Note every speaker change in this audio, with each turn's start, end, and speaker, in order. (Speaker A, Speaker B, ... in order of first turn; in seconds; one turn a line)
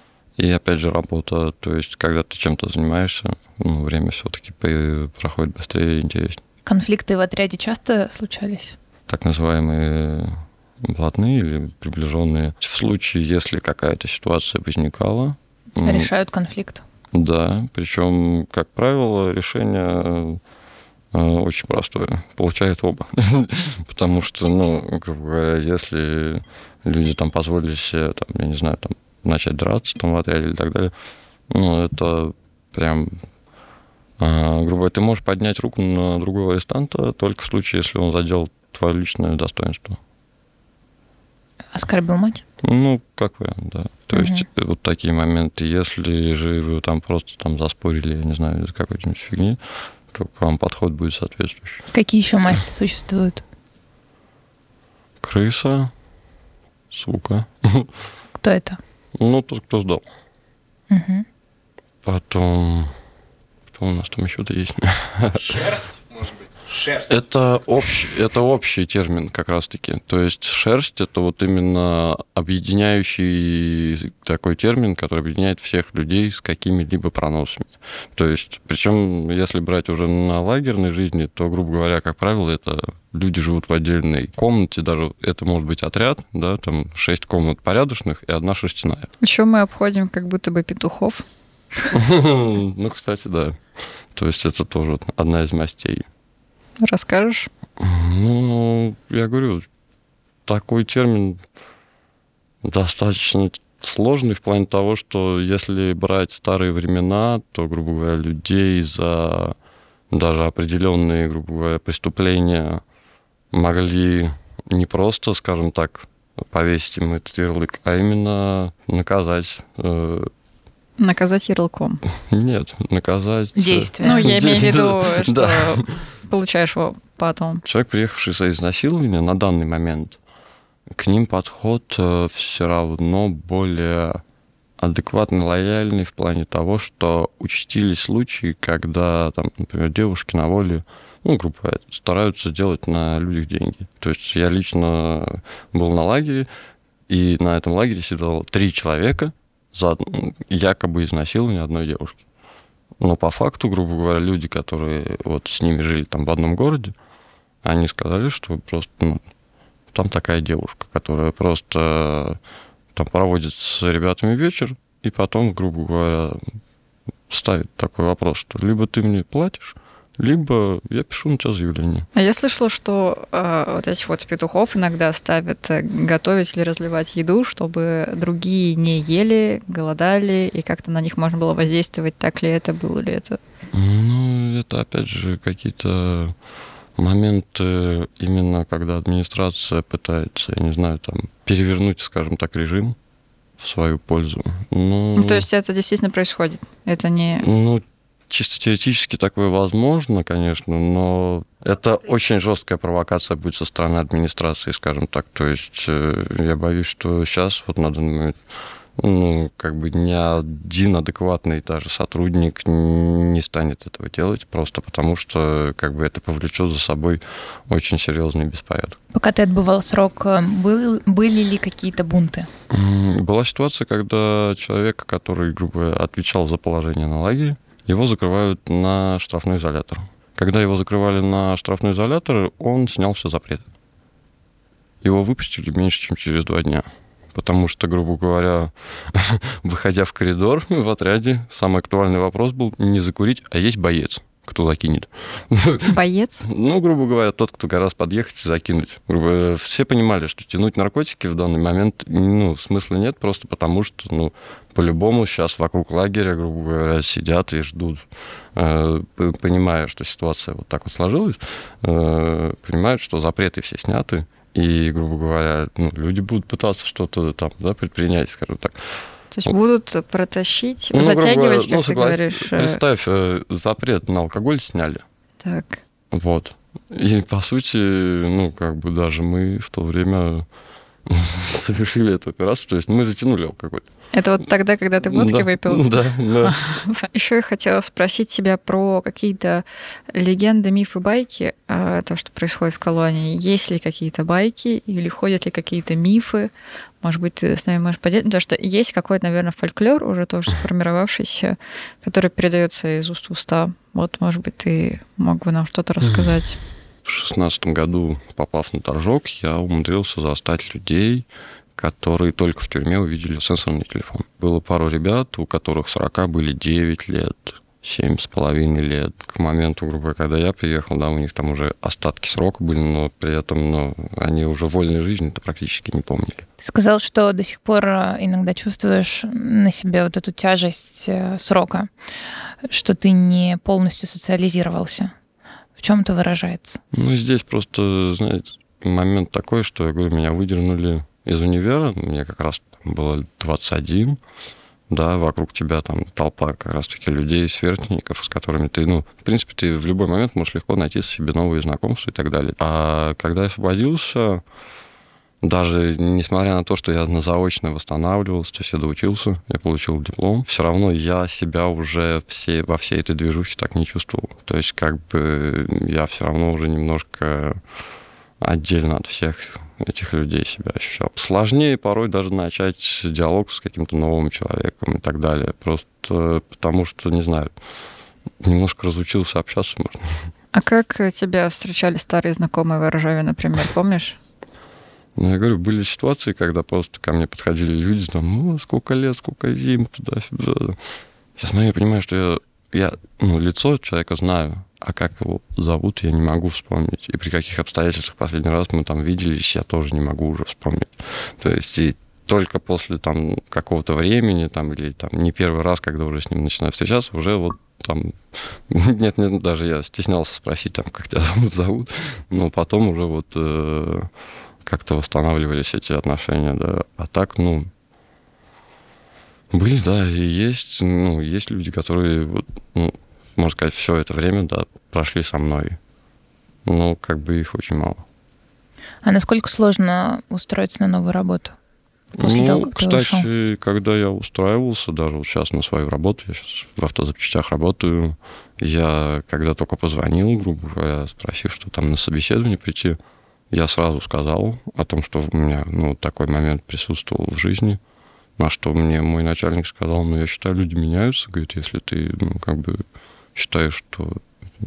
Speaker A: 0.3-6.4
Speaker B: 6.6-8.8
Speaker A: 9.1-16.1
Speaker B: 15.8-16.8
Speaker A: 17.1-20.4
Speaker A: 21.1-30.9
Speaker A: 31.5-33.2
Speaker A: 34.2-40.0
Speaker B: 41.7-42.4
Speaker A: 42.6-51.8
Speaker B: 44.1-44.5
Speaker B: 51.9-53.4
Speaker A: 55.2-55.9
Speaker A: 56.9-57.9
Speaker B: 58.4-58.8
Speaker A: 59.1-60.0
Speaker B: 60.9-61.2
Speaker A: 62.0-63.0
Speaker A: 63.7-65.8
Speaker A: 66.9-89.1
Speaker C: 89.2-91.2
Speaker A: 91.9-93.6
Speaker A: 94.1-96.0
Speaker C: 96.8-97.5
Speaker A: 97.8-99.7
Speaker A: 100.5-101.4
Speaker A: 102.6-109.5
Speaker A: 110.1-112.8
Speaker A: 113.5-120.3
Speaker C: 121.0-122.0
Speaker A: 122.2-125.9
Speaker B: 123.5-124.3
Speaker C: 124.0-127.6
Speaker A: 127.6-130.2
Speaker A: 130.9-134.2
Speaker A: 134.8-146.5
Speaker A: 147.1-152.2
Speaker A: 153.0-156.9
Speaker A: 157.6-159.2
Speaker A: 159.9-162.4
Speaker A: 162.9-166.4
Speaker A: 167.3-172.1
Speaker C: 172.1-183.4
Speaker A: 183.7-186.3
Speaker A: 187.0-193.0
Speaker A: 193.6-195.5
Speaker C: 195.2-197.5
Speaker A: 197.4-208.4
Speaker A: 208.9-219.0
Speaker B: 219.1-222.5
Speaker A: 222.7-233.7
Speaker A: 235.0-269.5
Speaker C: 245.9-246.4
Speaker C: 269.3-272.8
Speaker A: 270.9-275.0
Speaker C: 275.4-275.8
Speaker A: 276.1-280.5
Speaker A: 281.1-283.9
Speaker C: 284.1-296.5
Speaker A: 285.1-286.6
Speaker C: 297.0-306.6
Speaker A: 306.0-306.3
Speaker A: 307.0-326.4
Speaker B: 326.6-331.9
Speaker B: 332.6-335.1
Speaker B: 335.8-336.8
Speaker A: 336.9-344.2
Speaker A: 344.9-354.4
Speaker A: 355.4-367.6
Speaker A: 368.4-377.5
Speaker A: 378.4-380.3
Speaker C: 380.5-384.2
Speaker A: 385.1-390.8
Speaker A: 391.4-414.1
Speaker A: 414.6-417.7
Speaker A: 419.5-425.8
Speaker A: 426.6-428.0
Speaker B: 429.0-431.6
Speaker A: 432.1-443.0
Speaker B: 432.2-433.3
Speaker A: 443.5-447.8
Speaker A: 448.4-454.2